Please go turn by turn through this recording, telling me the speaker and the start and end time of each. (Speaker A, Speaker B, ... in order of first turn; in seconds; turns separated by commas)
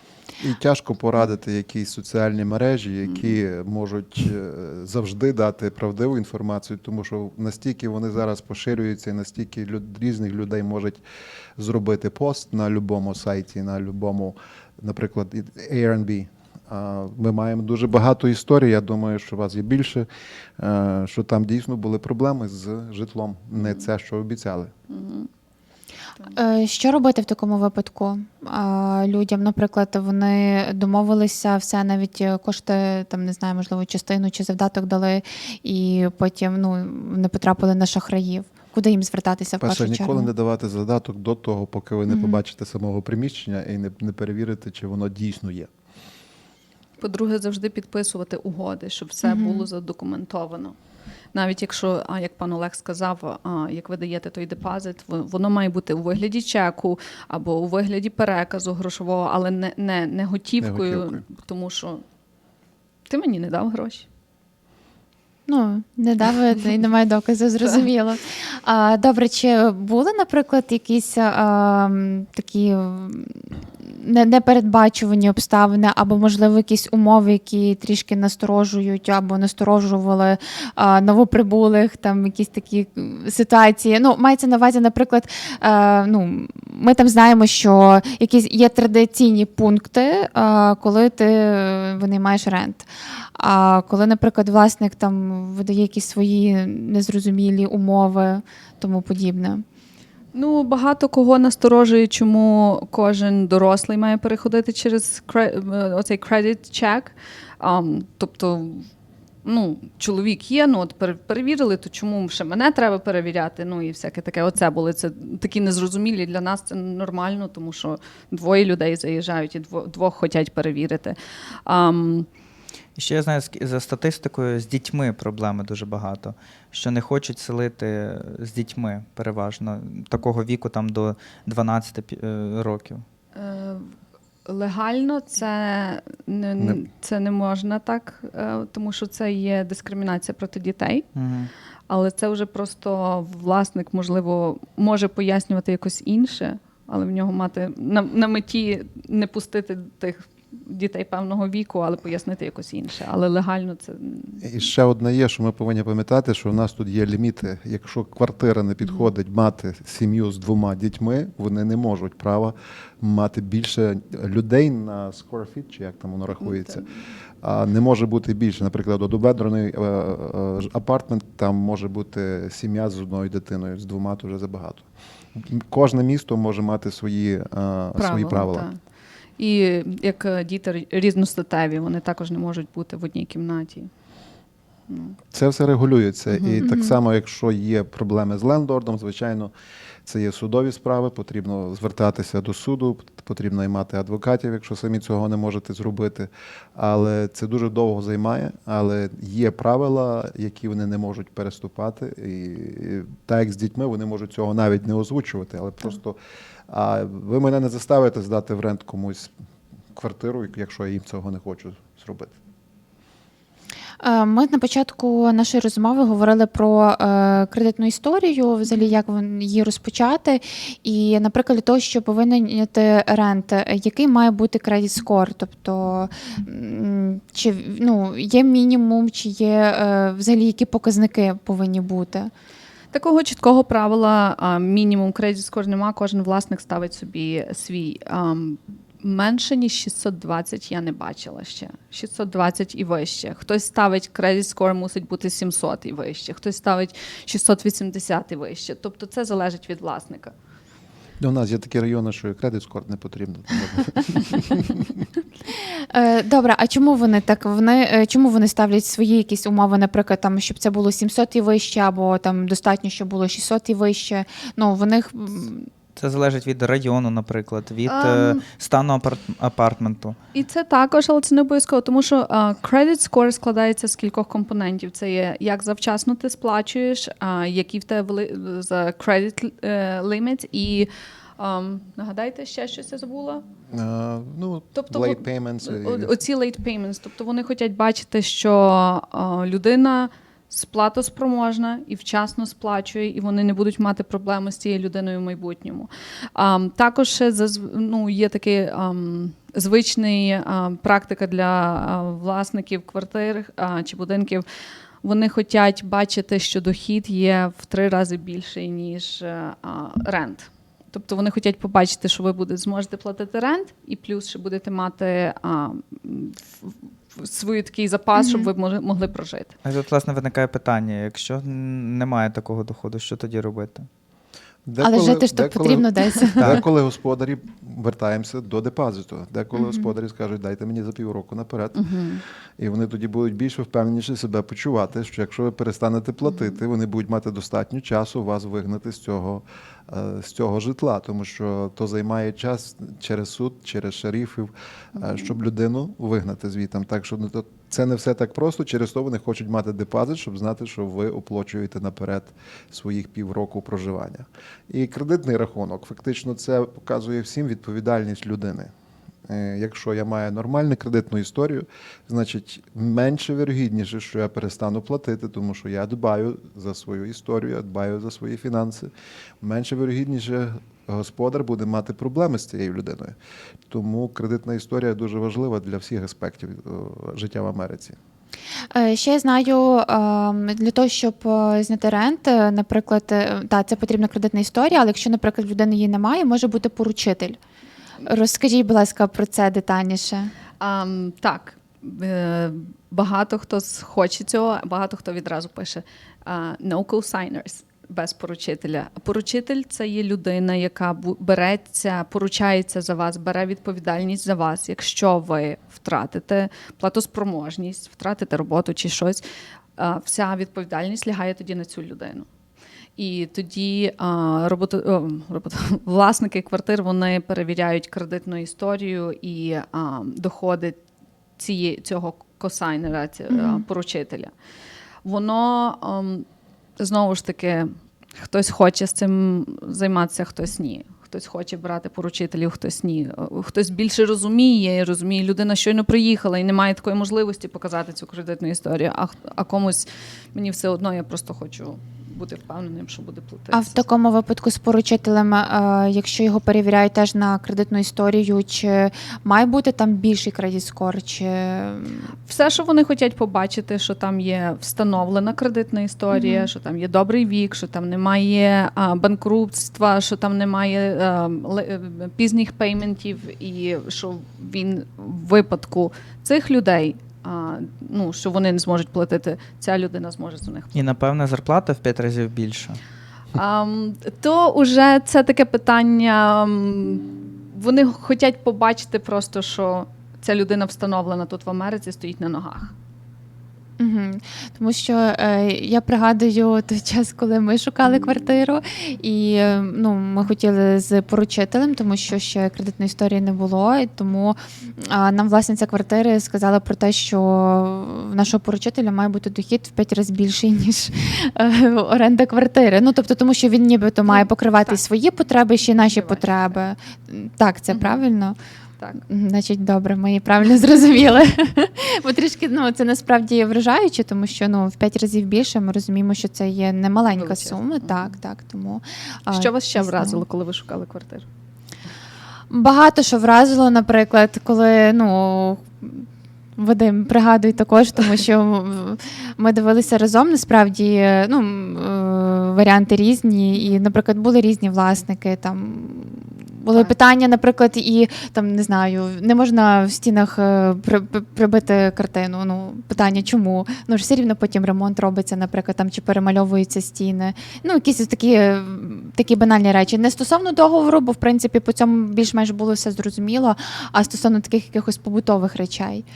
Speaker A: 0.4-11.0, Speaker A: 11.6-20.1, Speaker A: 20.6-24.7, Speaker B: 24.9-25.3, Speaker C: 26.3-40.3, Speaker A: 39.6-45.7, Speaker C: 42.1-42.4, Speaker B: 47.0-50.7, Speaker C: 49.2-49.7, Speaker B: 51.3-62.0, Speaker A: 60.6-61.2, Speaker B: 63.1-64.1, Speaker C: 65.5-99.6, Speaker B: 100.3-108.9, Speaker B: 109.4-122.3, Speaker D: 123.0-133.0, Speaker B: 133.3-133.9, Speaker B: 134.4-141.1, Speaker D: 141.1-141.5, Speaker B: 141.9-154.5, Speaker A: 154.4-166.8, Speaker B: 166.4-167.0, Speaker A: 167.4-178.7, Speaker B: 177.9-178.8, Speaker B: 179.4-183.9, Speaker B: 184.9-185.2, Speaker A: 185.3-189.5, Speaker B: 186.3-186.6, Speaker C: 186.6-186.9, Speaker A: 190.0-206.2, Speaker A: 206.7-209.3, Speaker A: 209.9-212.3, Speaker C: 214.0-232.3, Speaker B: 232.9-250.3, Speaker A: 251.2-255.0, Speaker C: 255.9-265.7, Speaker D: 265.9-270.2, Speaker B: 267.9-268.4, Speaker B: 270.3-283.4, Speaker A: 283.7-286.1, Speaker B: 284.7-304.4, Speaker B: 305.0-319.5, Speaker C: 318.2-318.5, Speaker D: 319.6-323.9, Speaker A: 324.6-331.8, Speaker C: 324.8-326.6, Speaker B: 331.8-332.2, Speaker A: 332.6-358.7, Speaker A: 359.3-373.1, Speaker A: 373.7-378.0, Speaker C: 378.7-387.4, Speaker C: 388.0-390.3, Speaker B: 390.6-409.2, Speaker B: 409.8-412.3, Speaker B: 413.0-420.8, Speaker B: 421.4-424.3, Speaker C: 423.3-423.6, Speaker B: 425.0-426.2, Speaker B: 426.8-443.8, Speaker C: 443.5-452.1, Speaker B: 452.3-470.7, Speaker C: 456.1-456.5, Speaker D: 470.7-472.8, Speaker B: 473.3-482.7, Speaker C: 483.8-508.4, Speaker B: 504.1-504.8, Speaker B: 505.8-506.6, Speaker B: 507.7-508.0, Speaker C: 509.1-520.2, Speaker B: 517.1-518.1, Speaker B: 519.3-521.2, Speaker C: 522.5-526.0, Speaker C: 526.6-556.0